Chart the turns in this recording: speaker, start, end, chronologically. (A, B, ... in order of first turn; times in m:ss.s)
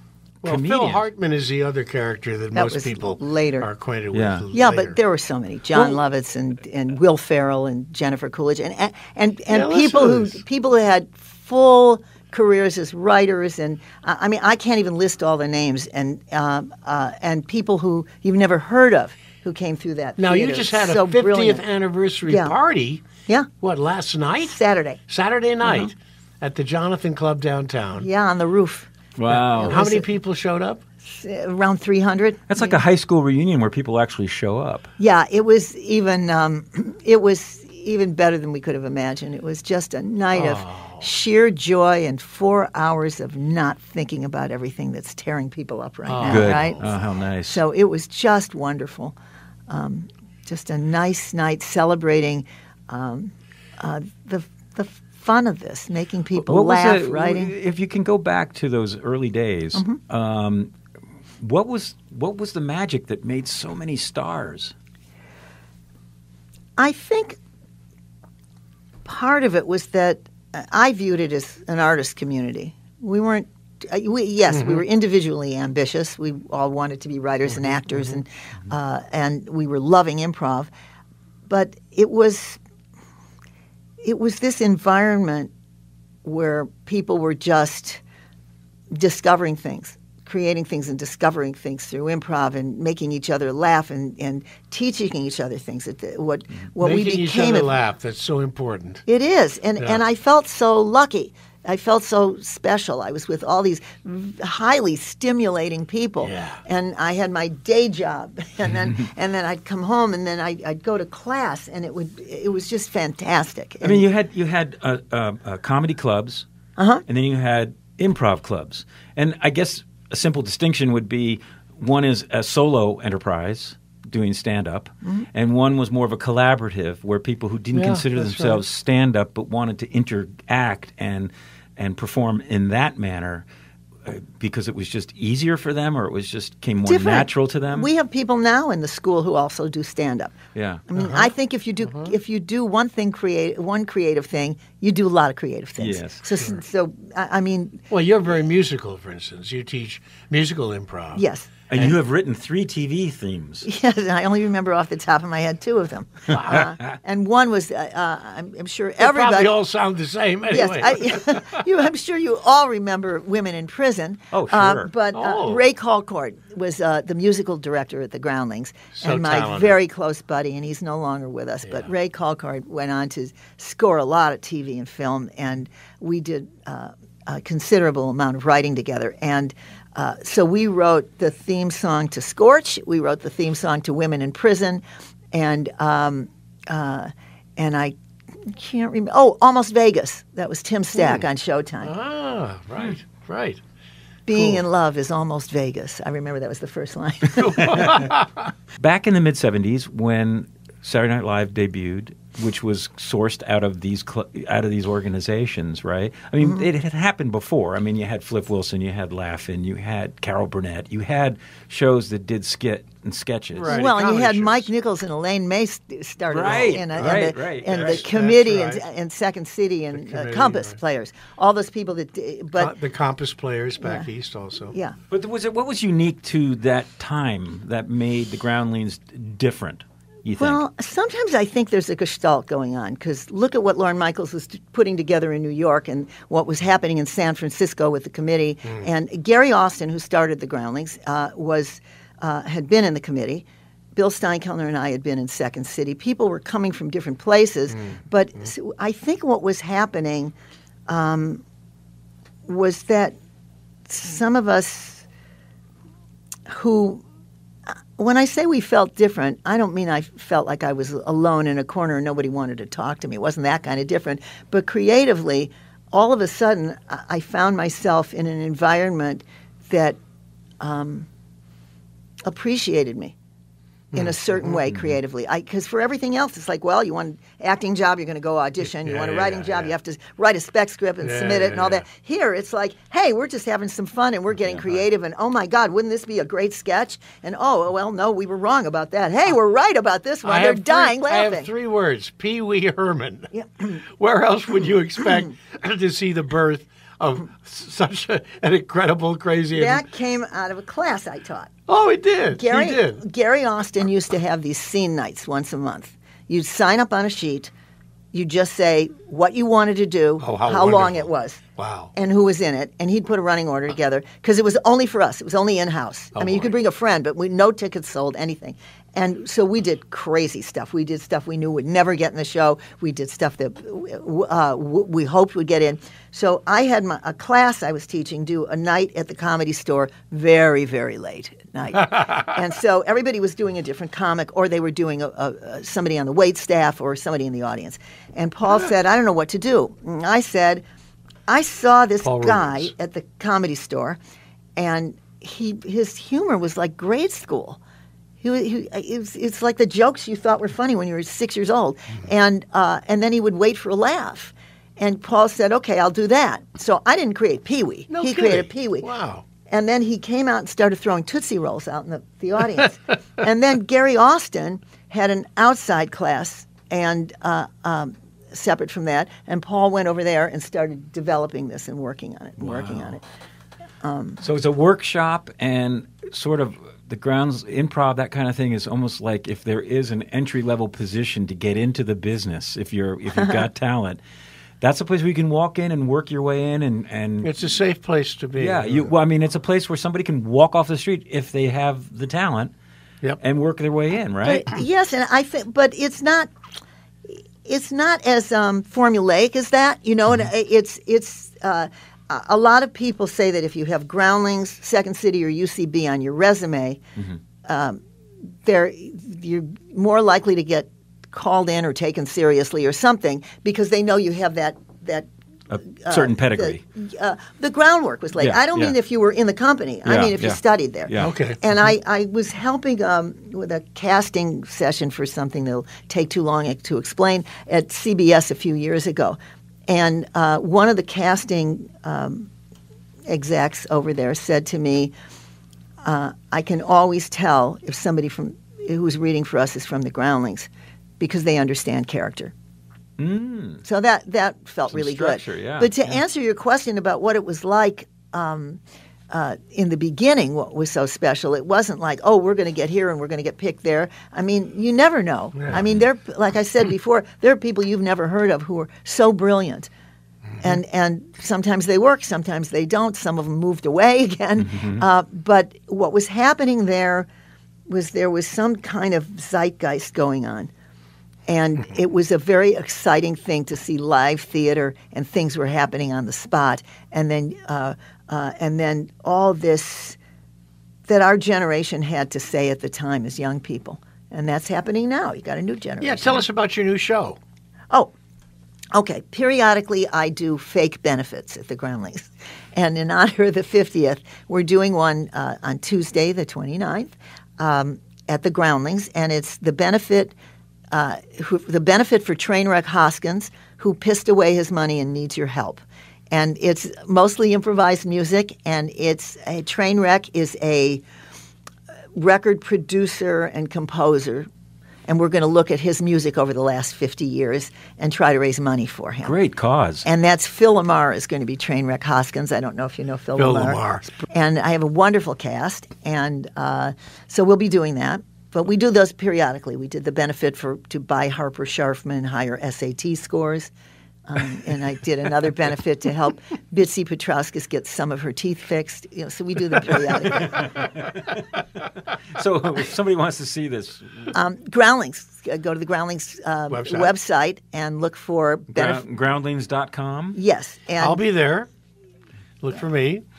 0:00.4-0:05.0 A
0:00.4-0:01.0 B
0:02.5-0:03.7 C
0:04.1-0:04.4 B
0:04.5-0:21.6 C
0:09.5-0:10.4 A
0:20.2-0:23.0 A
0:22.2-0:22.5 C
0:23.6-0:28.1 A
0:24.4-0:25.0 C
0:28.0-0:30.1 C
0:29.2-0:29.8 B
0:29.3-0:30.8 A
0:31.0-0:32.8 C
0:32.5-0:34.9 B
0:35.0-0:46.8 C
0:40.3-0:41.1 A
0:46.1-0:46.8 A
0:46.2-0:47.6 B
0:47.4-0:49.2 C
0:49.7-0:57.5 C
0:56.4-1:00.7 B
0:59.7-1:00.0 C
1:01.4-1:04.7 B
1:06.8-1:07.4 C
1:09.0-1:20.7 C
1:14.5-1:14.8 A
1:17.5-1:18.1 A
1:21.5-1:22.6 C
1:24.0-1:25.5 C
1:26.2-1:28.0 C
1:28.9-1:37.7 C
1:36.8-1:39.0 A
1:39.1-1:54.0 C
1:46.2-1:46.6 A
1:53.8-1:56.4 B
1:56.8-1:57.0 C
1:57.0-2:13.4 B
2:07.7-2:08.6 A
2:14.0-2:17.9 B
2:16.8-2:20.3 C
2:20.5-2:20.8 B
2:20.9-2:27.8 C
2:21.0-2:21.3 A
2:25.8-2:26.2 B
2:27.9-2:31.2 A
2:31.1-2:31.5 C
2:31.7-2:33.7 B
2:33.6-2:39.6 C
2:36.3-2:36.6 B
2:36.3-2:36.7 A
2:39.0-2:41.6 A
2:40.5-3:04.8 C
2:44.3-2:44.9 B
2:45.1-2:45.6 A
2:49.0-2:49.8 A
3:05.3-3:11.9 C
3:11.0-3:11.2 A
3:11.8-3:13.6 A
3:14.3-3:18.0 C
3:14.3-3:14.6 A
3:17.4-3:18.5 A
3:17.6-3:18.1 B
3:18.8-3:33.9 B
3:33.5-3:34.7 A
3:33.6-3:42.7 C
3:36.3-3:38.1 B
3:36.4-3:38.8 A
3:39.9-3:40.8 A
3:42.6-3:44.7 A
3:43.8-3:44.1 C
3:45.1-3:50.6 B
3:50.4-4:03.4 C
4:04.0-4:10.3 C
4:07.7-4:08.0 A
4:10.9-4:11.4 C
4:12.4-4:13.1 C
4:13.9-4:15.0 C
4:16.5-4:17.0 C
4:18.0-4:30.0 C
4:30.6-4:31.1 C
4:32.3-4:33.1 C
4:33.9-4:34.6 A
4:33.9-4:51.5 C
4:38.8-4:39.7 A
4:41.0-4:41.8 A
4:50.2-4:59.8 A
4:53.3-4:53.6 C
4:59.5-5:01.5 C
5:01.7-5:03.0 A
5:02.3-5:07.5 C
5:08.1-5:11.4 C
5:10.2-5:11.9 A
5:11.9-5:40.6 C
5:16.1-5:16.5 A
5:31.8-5:32.2 A
5:41.3-5:44.0 C
5:42.0-5:42.7 A
5:44.6-5:47.6 C
5:48.2-5:58.9 C
5:57.9-5:59.2 A
5:59.5-6:13.0 C
6:12.4-6:12.9 B
6:13.8-6:14.2 C
6:14.2-6:24.0 B
6:24.6-6:27.3 B
6:27.2-6:28.9 A
6:28.4-6:32.5 B
6:33.2-6:34.5 B
6:34.2-6:36.3 C
6:37.1-6:46.8 C
6:47.4-6:47.8 C
6:48.4-6:55.1 C
6:55.5-6:56.6 B
6:55.6-7:09.2 C
6:58.2-6:58.7 B
6:59.8-7:01.1 B
7:01.0-7:01.4 A
7:09.7-7:12.3 C
7:13.1-7:14.9 C
7:15.8-7:20.5 C
7:21.0-7:22.3 C
7:23.0-7:23.6 B
7:23.6-7:39.7 C
7:24.7-7:25.9 B
7:40.4-7:47.1 C
7:44.5-7:44.8 B
7:47.7-7:50.5 C
7:51.3-8:00.0 C
8:00.9-8:06.2 C
8:05.8-8:07.2 A
8:08.7-8:20.1 C
8:20.7-8:30.8 C
8:31.9-8:34.3 C
8:34.9-8:39.2 C
8:39.0-8:39.8 B
8:39.8-8:53.5 C
8:43.2-8:43.9 A
8:54.1-9:00.5 C
9:00.1-9:04.1 B
9:04.1-9:08.8 C
9:06.5-9:06.9 A
9:08.5-9:10.2 B
9:10.1-9:11.0 C
9:10.8-9:11.5 A
9:12.4-9:13.0 A